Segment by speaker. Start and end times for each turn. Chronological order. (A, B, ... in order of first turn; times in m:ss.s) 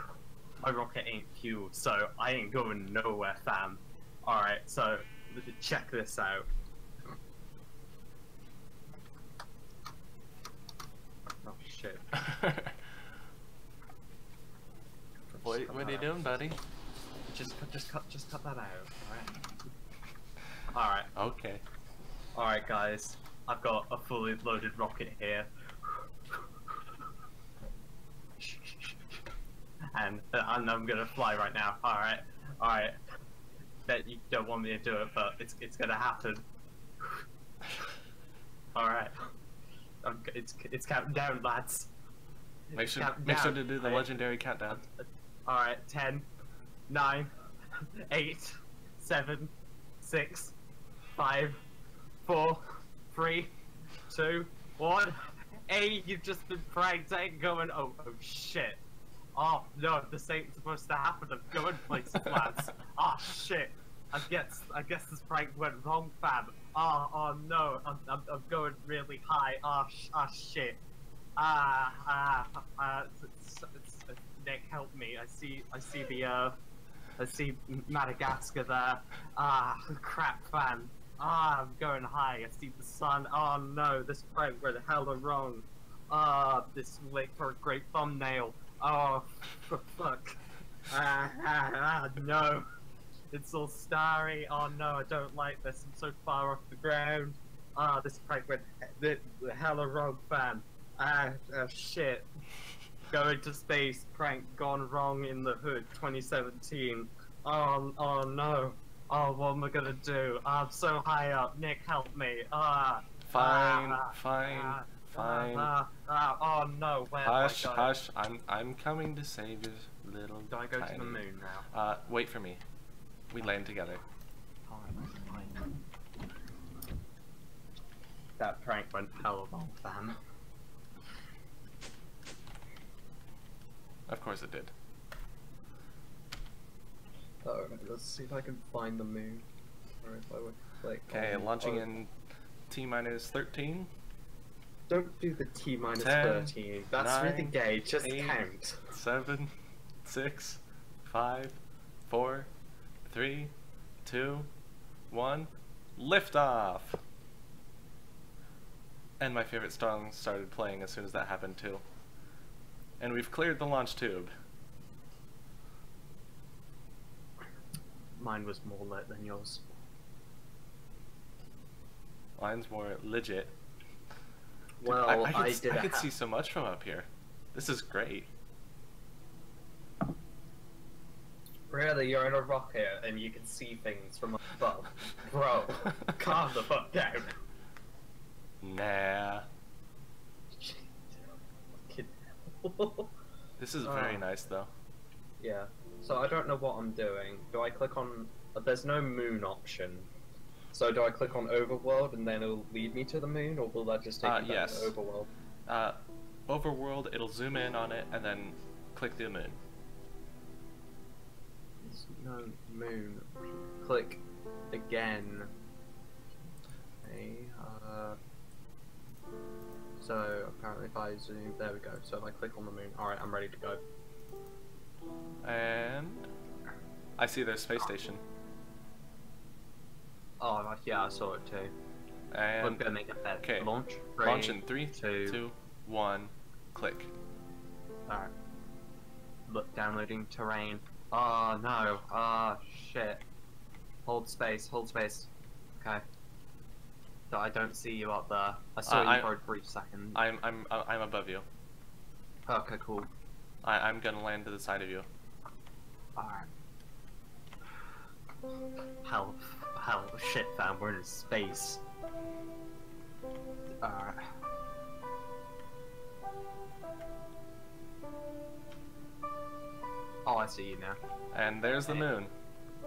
0:00.6-0:06.4 A
0:11.4-0:12.2 A
0:12.1-0:12.7 B
0:15.3-0:16.4 A
0:15.4-0:16.6 B
0:17.3-0:19.5 A
0:20.7-0:21.1 A
0:21.2-0:21.6 B
0:22.3-0:26.8 A
0:28.4-0:29.0 A
0:29.9-0:33.0 A
0:33.8-0:36.4 A
0:38.7-0:39.2 A
0:40.0-0:41.9 A
0:42.7-0:44.1 A
0:42.8-0:44.8 B
0:44.8-0:46.3 A
0:46.9-0:47.3 A
0:48.1-0:50.5 A
0:51.2-0:51.6 A
0:52.2-0:53.5 A
0:54.1-0:58.8 A
0:59.3-1:10.8 A
1:11.4-1:16.6 A
1:17.2-1:30.3 A
1:30.9-1:32.6 A
1:33.3-1:42.2 A
1:43.1-1:57.9 A
1:53.2-1:55.7 B
1:57.2-2:02.6 B
2:00.5-2:01.7 A
2:03.3-2:04.0 B
2:04.7-2:05.7 A
2:08.4-2:10.2 A
2:14.1-2:14.7 B
2:17.4-2:19.4 A
2:20.0-2:21.8 A
2:21.1-2:22.1 B
2:22.7-2:23.9 B
2:24.9-2:28.9 A
2:26.0-2:28.4 B
2:28.9-2:29.5 B
2:30.0-2:32.5 B
2:33.0-2:33.5 B
2:34.0-2:34.5 B
2:35.1-2:37.0 B
2:39.2-2:41.8 B
2:43.0-2:44.3 B
2:48.1-2:49.7 A
2:52.4-2:53.5 B
2:54.8-2:56.1 A
2:54.8-2:58.3 B
3:01.7-3:07.4 A
3:08.6-3:09.4 B
3:10.6-3:11.0 A
3:11.8-3:13.1 A
3:13.6-3:14.7 B
3:13.8-3:14.3 A
3:15.4-3:20.1 A
3:20.7-3:25.3 A
3:24.2-3:24.9 B
3:25.7-3:26.0 B
3:26.5-3:29.6 B
3:31.8-3:35.5 A
3:37.0-3:38.2 A
3:40.0-3:43.8 A
3:45.4-3:46.3 B
3:47.2-3:48.2 B
3:50.4-3:51.7 A
3:52.3-3:52.8 B
3:52.6-3:55.4 A
3:53.4-3:53.7 B
3:54.2-3:57.1 B
3:59.5-4:03.2 A
4:04.0-4:06.0 A
4:07.3-4:10.2 A
4:08.8-4:09.3 B
4:10.1-4:11.4 B
4:12.5-4:13.1 A
4:13.6-4:15.1 B
4:16.2-4:16.5 A
4:19.0-4:21.8 A
4:23.8-4:24.3 A
4:30.2-4:31.0 A
4:31.3-4:32.3 B